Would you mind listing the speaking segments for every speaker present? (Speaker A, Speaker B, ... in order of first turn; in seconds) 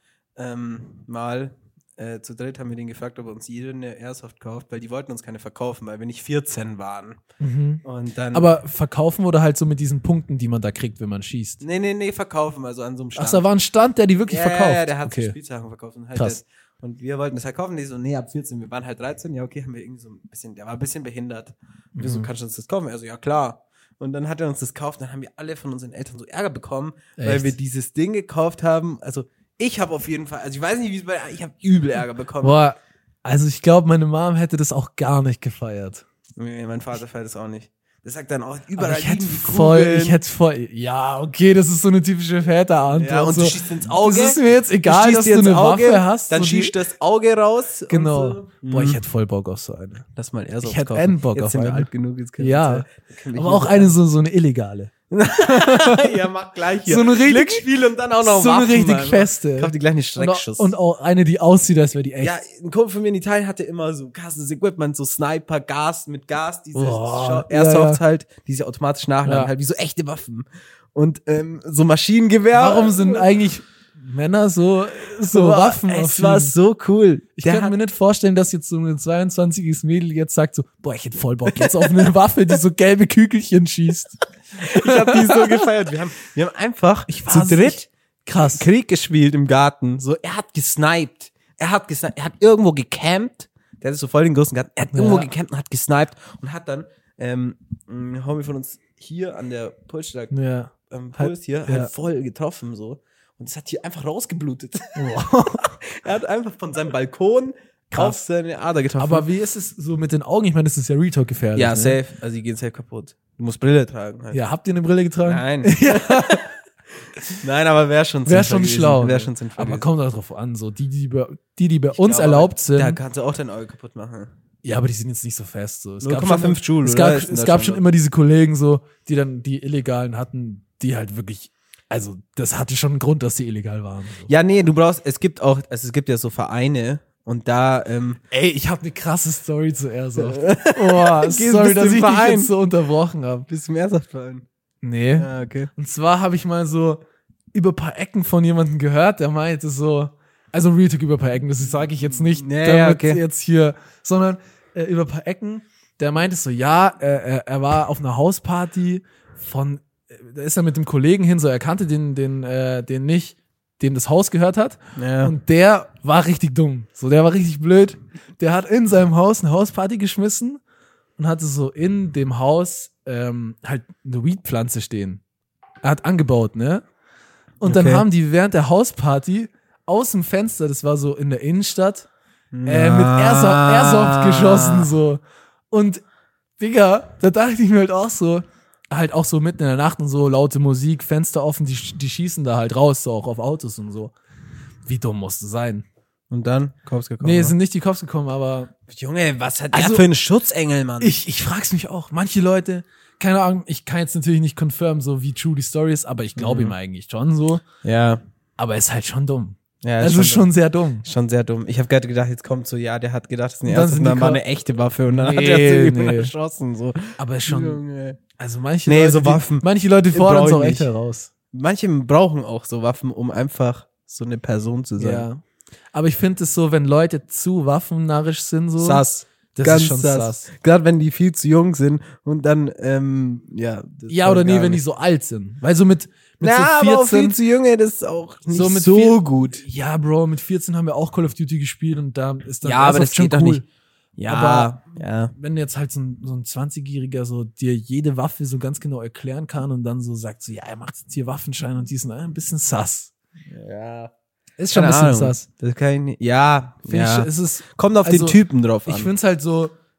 Speaker A: 0.3-7.2, 7.8-8.5, 11.6-13.4, 14.3-32.5, 36.4-40.2, 42.9-49.0, 50.1-53.9, 55.1-60.7, 62.2-73.2, 75.3-77.7, 81.5-82.1, 84.6-100.3, 100.9-105.0, 105.8-109.3, 111.5-114.4, 115.2-116.5, 117.3-119.9, 121.9-124.3, 126.0-127.8, 134.3-138.2, 140.2-142.5, 143.5-144.4, 145.2-145.7, 152.0-153.2, 164.9-165.3, 177.6-178.0, 182.5-184.9, 196.3-197.6, 198.9-201.2, 206.3-206.7, 207.8-208.2, 209.8-210.5, 211.0-218.2, 218.8-220.9, 221.5-225.3, 228.8-234.8, 236.4-239.6, 242.6-243.6, 244.2-245.3, 253.4-254.1, 254.7-259.1
Speaker B: 7.4-11.6, 13.2-15.3, 21.9-22.3, 27.2-27.5, 32.4-36.0, 38.8-46.8, 47.9-50.0, 50.6-56.1, 56.8-57.6, 58.2-62.4, 66.7-68.0, 69.2-69.5, 72.5-76.5, 77.3-85.7, 87.1-88.7, 94.9-95.3, 100.3-101.9, 105.0-105.8, 107.9-108.2, 109.0-112.0, 114.3-116.5, 118.2-123.0, 124.6-134.3, 138.3-143.5, 144.8-147.0, 147.5-170.6, 171.2-175.2, 175.8-176.8, 177.6-182.1, 182.6-186.0, 186.6-194.1, 194.8-195.8, 197.2-198.7, 199.7-200.0, 201.0-207.6, 208.6-211.0, 213.7-214.4, 215.1-216.3, 217.2-217.8, 218.4-221.3, 225.0-225.4, 225.9-230.5, 234.1-237.4, 238.5-243.6, 244.3-244.7, 245.3-253.1, 254.6-255.4, 256.9-259.7